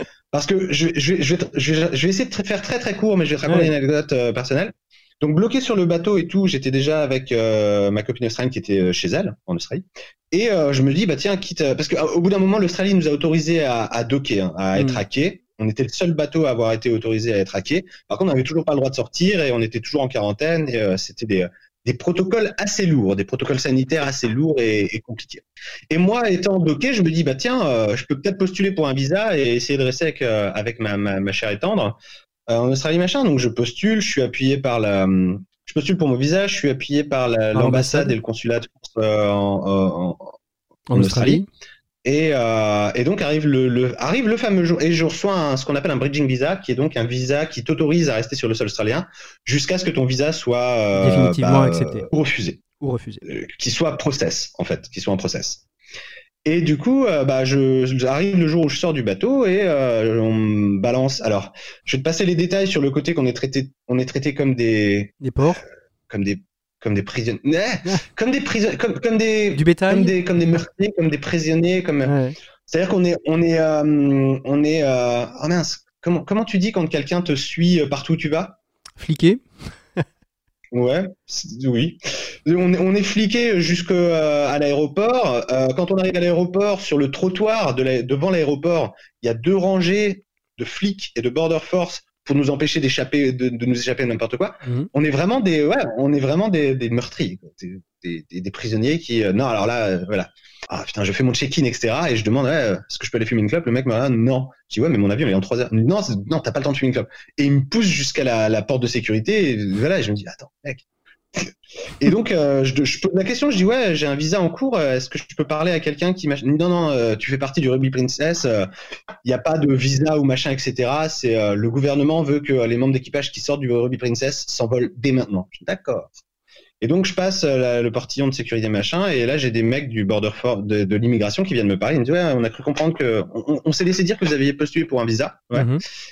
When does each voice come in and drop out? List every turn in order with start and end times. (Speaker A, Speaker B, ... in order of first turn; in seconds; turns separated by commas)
Speaker A: 0.3-32.0, Speaker B: 3.5-3.7, Speaker B: 14.8-15.0, Speaker A: 32.5-40.4, Speaker B: 37.5-38.2, Speaker B: 40.9-41.5, Speaker A: 41.0-41.4, Speaker A: 42.0-52.6, Speaker B: 51.0-52.1, Speaker B: 52.8-53.2, Speaker A: 53.2-55.6, Speaker A: 56.5-65.6, Speaker B: 65.2-65.6, Speaker A: 66.1-72.1, Speaker B: 69.5-70.1, Speaker B: 72.0-72.4, Speaker A: 72.7-78.6, Speaker B: 79.0-79.4, Speaker A: 80.7-118.7, Speaker A: 119.2-126.2, Speaker A: 126.8-135.7, Speaker B: 135.5-135.8